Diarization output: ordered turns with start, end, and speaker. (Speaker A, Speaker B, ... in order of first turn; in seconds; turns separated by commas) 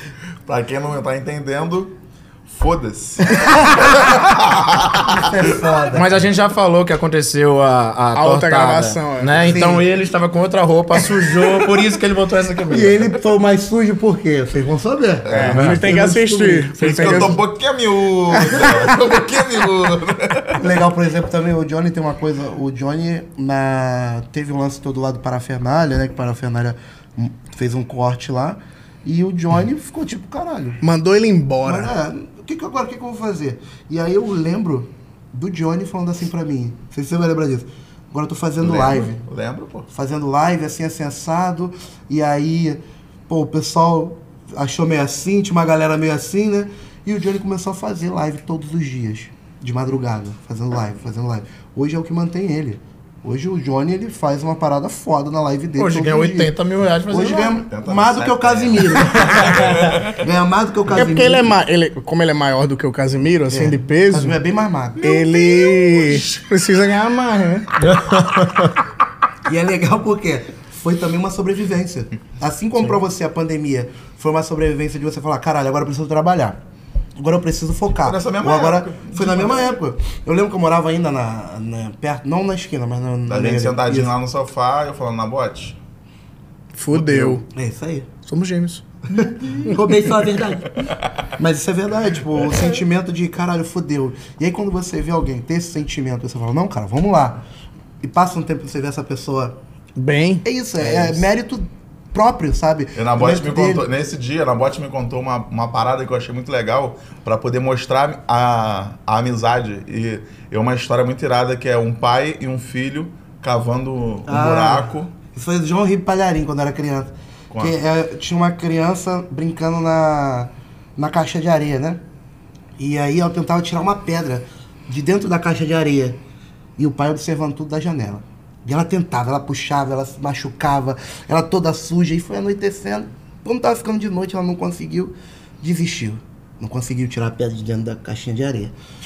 Speaker A: 0.5-5.3, Speaker B: 3.4-3.8, Speaker B: 5.1-6.2, Speaker C: 5.9-13.0, Speaker D: 8.2-9.6, Speaker B: 9.4-9.8, Speaker B: 12.7-17.4, Speaker A: 15.3-15.7, Speaker D: 15.3-17.4, Speaker C: 15.5-15.8, Speaker A: 16.8-20.6, Speaker B: 20.6-30.8, Speaker D: 30.8-31.9, Speaker B: 31.6-39.2, Speaker A: 38.6-39.9, Speaker B: 39.9-56.5, Speaker C: 55.8-57.6, Speaker B: 57.1-61.5, Speaker A: 57.6-60.2, Speaker D: 60.9-64.4, Speaker B: 63.5-66.2, Speaker D: 65.0-67.9, Speaker C: 67.8-68.7, Speaker B: 69.5-76.6, Speaker B: 77.2-84.1, Speaker A: 78.0-79.8, Speaker A: 83.3-85.8, Speaker D: 86.8-87.4, Speaker A: 86.9-87.4, Speaker B: 87.5-88.1, Speaker D: 88.3-88.8, Speaker B: 89.1-97.4, Speaker B: 98.0-99.6, Speaker D: 100.0-100.4, Speaker B: 100.4-103.9, Speaker A: 100.8-101.2, Speaker A: 103.0-115.1, Speaker B: 114.3-122.0, Speaker B: 122.8-126.2, Speaker B: 126.8-138.8